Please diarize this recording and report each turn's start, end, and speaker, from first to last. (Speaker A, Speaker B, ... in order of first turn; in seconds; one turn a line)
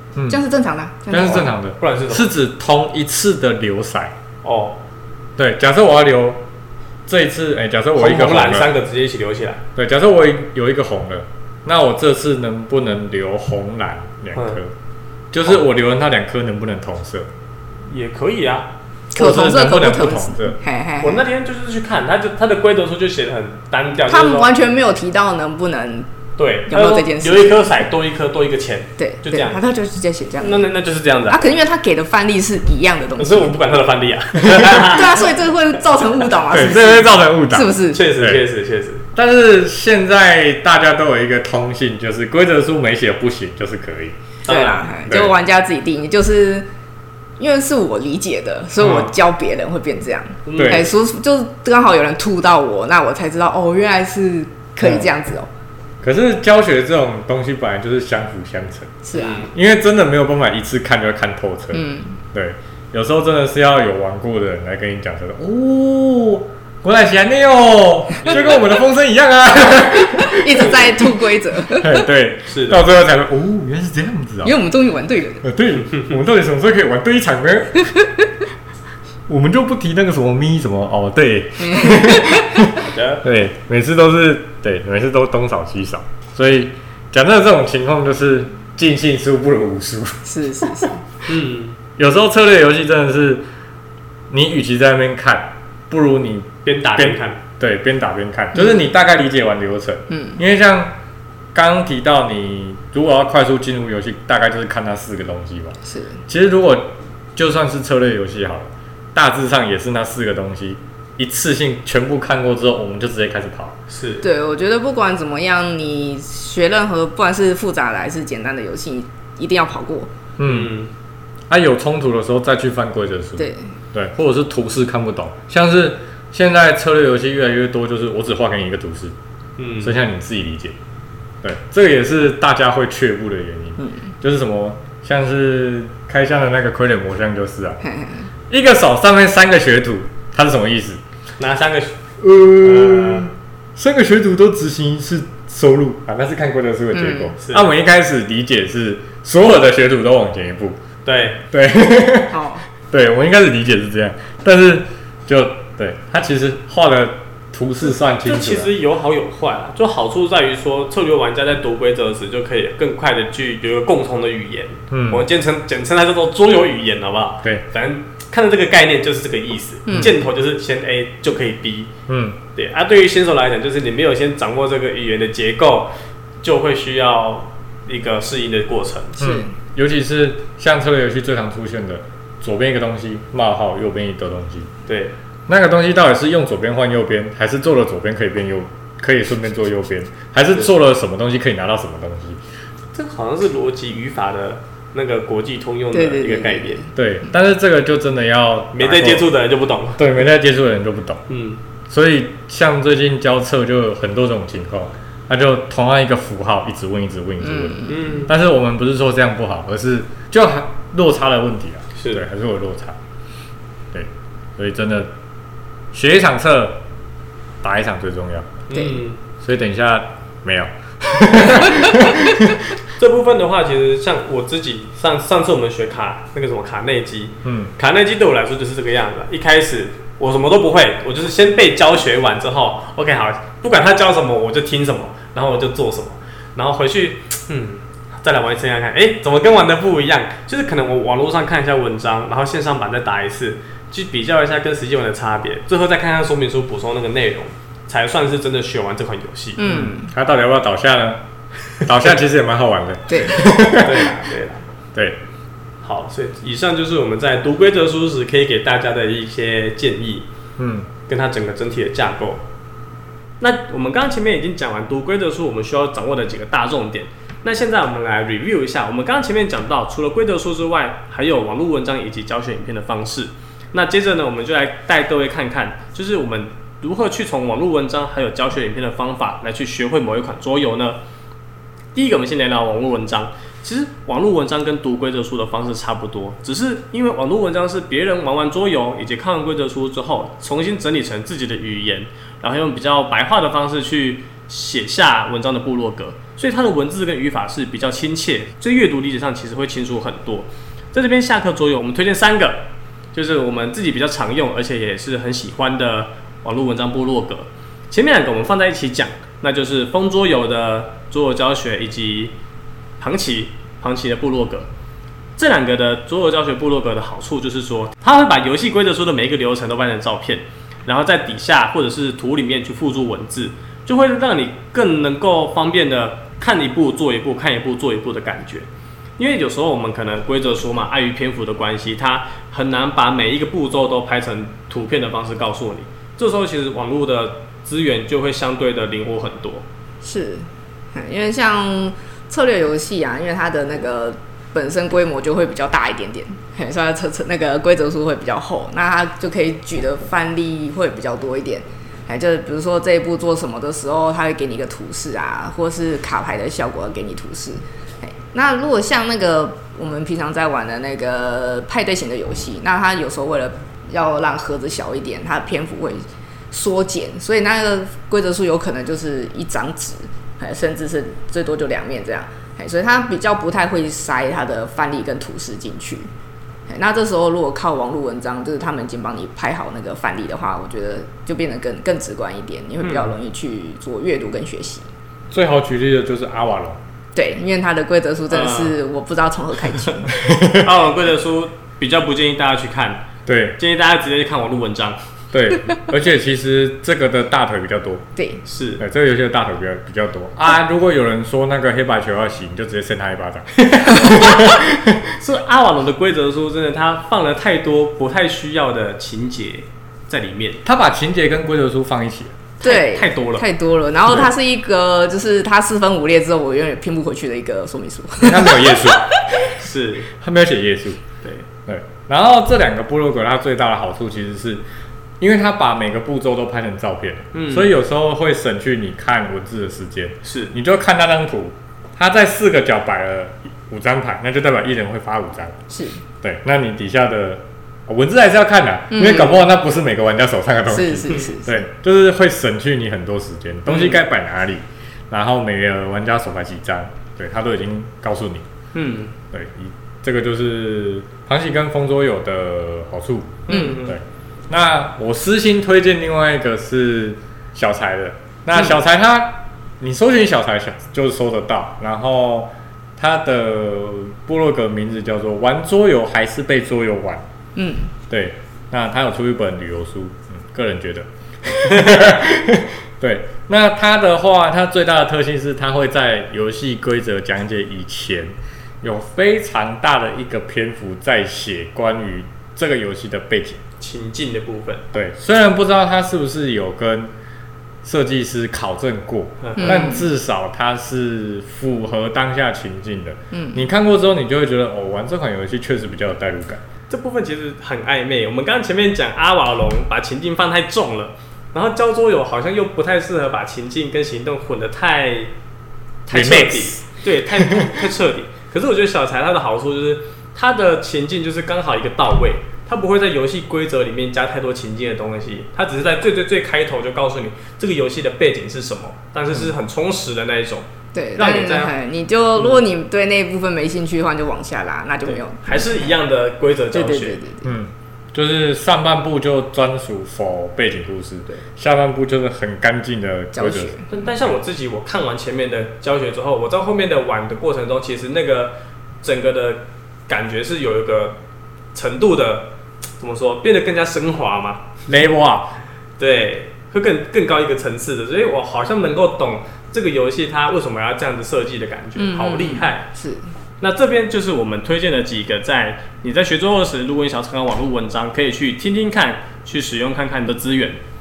Speaker A: 0.3-1.5
Speaker B: 1.1-4.1
Speaker C: 1.8-2.3
Speaker C: 4.4-4.8
Speaker B: 5.4-6.4
Speaker B: 7.1-8.7
Speaker C: 8.0-9.6
Speaker B: 9.8-14.7
Speaker C: 14.3-14.6
Speaker B: 15.3-17.3
Speaker C: 17.9-18.7
Speaker A: 19.1-21.2
Speaker B: 19.1-20.6
Speaker C: 21.0-24.5
Speaker A: 24.1-26.1
Speaker C: 26.4-29.6
Speaker A: 26.7-27.6
Speaker A: 29.0-30.7
Speaker C: 30.4-31.4
Speaker A: 31.3-33.6
Speaker C: 33.2-35.3
Speaker B: 34.4-34.9
Speaker A: 34.6-38.0
Speaker B: 36.5-38.4
Speaker C: 37.9-39.0
Speaker B: 39.1-44.1
Speaker A: 44.5-46.7
Speaker C: 44.5-44.8
Speaker B: 45.1-45.3
Speaker A: 47.4-55.5
Speaker C: 48.8-49.1
Speaker C: 50.5-50.9
Speaker B: 50.5-50.8
Speaker B: 54.8-55.1
Speaker B: 56.0-71.0
Speaker A: 59.0-59.5
Speaker C: 59.1-59.5
Speaker A: 61.7-62.2
Speaker C: 68.2-68.6
Speaker A: 69.8-72.1
Speaker B: 71.7-74.5
Speaker C: 72.5-72.8
Speaker A: 74.4-75.4
Speaker B: 75.4-77.9
Speaker A: 77.9-78.2
Speaker B: 79.3-90.2
Speaker A: 81.6-82.6
Speaker C: 82.7-83.2
Speaker A: 90.2-91.0
Speaker C: 91.3-91.8
Speaker B: 92.0-93.4
Speaker B: 94.3-100.9
Speaker C: 96.6-97.4
Speaker A: 98.5-98.8
Speaker A: 100.1-100.4
Speaker B: 101.5-105.8
Speaker A: 105.9-106.2
Speaker B: 106.3-113.8
Speaker C: 113.9-114.2
Speaker A: 114.2-120.1
Speaker B: 120.4-120.7
Speaker C: 120.4-120.9
Speaker B: 121.5-129.1
Speaker A: 123.4-123.6
Speaker C: 129.6-129.9
Speaker B: 129.8-130.8
Speaker B: 131.4-137.8
Speaker A: 137.8-138.3
Speaker B: 138.5-141.0
Speaker C: 141.4-141.9
Speaker B: 142.2-150.8
Speaker C: 142.6-143.3
Speaker A: 146.9-147.3
Speaker C: 147.4-147.7
Speaker C: 151.0-151.4
Speaker B: 151.5-158.7
Speaker A: 152.3-152.6
Speaker C: 158.0-171.9
Speaker B: 164.9-165.2
Speaker A: 169.9-170.1
Speaker B: 172.1-172.4
Speaker C: 172.5-175.9
Speaker C: 176.4-179.2
Speaker A: 179.2-179.5
Speaker B: 179.2-184.7
Speaker C: 184.9-185.1
Speaker B: 185.5-192.4
Speaker C: 192.9-196.8
Speaker A: 195.9-196.9
Speaker B: 196.9-199.3
Speaker C: 198.7-200.2
Speaker B: 200.0-201.2
Speaker C: 201.3-201.6
Speaker B: 201.9-213.0
Speaker A: 207.4-208.2
Speaker C: 207.9-208.3
Speaker C: 212.0-212.2
Speaker B: 213.9-215.1
Speaker B: 215.9-216.8
Speaker B: 217.6-218.6
Speaker C: 218.7-219.2
Speaker A: 218.7-219.0
Speaker B: 219.4-222.7
Speaker C: 223.0-249.6
Speaker B: 227.4-227.7
Speaker A: 249.6-250.1
Speaker B: 249.7-251.2
Speaker B: 251.8-254.2
Speaker A: 253.1-253.5
Speaker C: 253.8-254.6
Speaker C: 255.8-260.3
Speaker B: 260.6-260.9
Speaker C: 261.1-262.4
Speaker C: 263.4-281.0
Speaker C: 281.9-302.6
Speaker C: 303.1-312.3
Speaker C: 313.0-314.7
Speaker C: 315.4-328.7
Speaker C: 329.2-339.6
Speaker A: 340.0-376.1
Speaker A: 376.7-384.9
Speaker C: 382.8-383.1
Speaker B: 385.3-386.8
Speaker A: 387.1-390.1
Speaker C: 388.3-388.8
Speaker B: 390.1-390.7
Speaker C: 390.6-395.0
Speaker B: 393.2-393.6
Speaker B: 395.3-398.1
Speaker A: 398.1-398.4
Speaker C: 398.5-398.8
Speaker B: 398.8-405.1
Speaker C: 404.0-404.6
Speaker C: 405.1-410.6
Speaker B: 410.6-412.4
Speaker A: 412.6-419.4
Speaker C: 412.6-413.4
Speaker B: 418.2-419.3
Speaker C: 419.5-420.1
Speaker B: 420.1-421.0
Speaker B: 421.7-424.6
Speaker B: 425.2-435.6
Speaker C: 427.3-427.7
Speaker C: 430.2-430.5
Speaker A: 435.7-436.0
Speaker B: 436.2-448.5
Speaker A: 438.9-439.4
Speaker A: 440.7-441.6
Speaker C: 443.7-444.0
Speaker C: 448.7-449.1
Speaker B: 449.3-467.2
Speaker C: 453.5-454.0
Speaker A: 453.5-453.8
Speaker A: 467.6-467.9
Speaker B: 468.1-483.6
Speaker C: 483.8-484.8
Speaker B: 484.9-487.1
Speaker B: 487.8-496.6
Speaker C: 489.4-489.9
Speaker A: 489.6-490.0
Speaker A: 493.3-493.6
Speaker C: 496.9-505.3
Speaker C: 506.0-521.7
Speaker B: 506.1-507.8
Speaker A: 520.9-525.9
Speaker C: 525.0-527.2
Speaker A: 526.7-527.5
Speaker B: 527.4-533.7
Speaker A: 533.3-533.9
Speaker C: 533.9-541.2
Speaker C: 541.7-544.7
Speaker B: 544.9-545.5
Speaker C: 546.0-552.9
Speaker A: 552.0-553.2
Speaker C: 553.6-560.8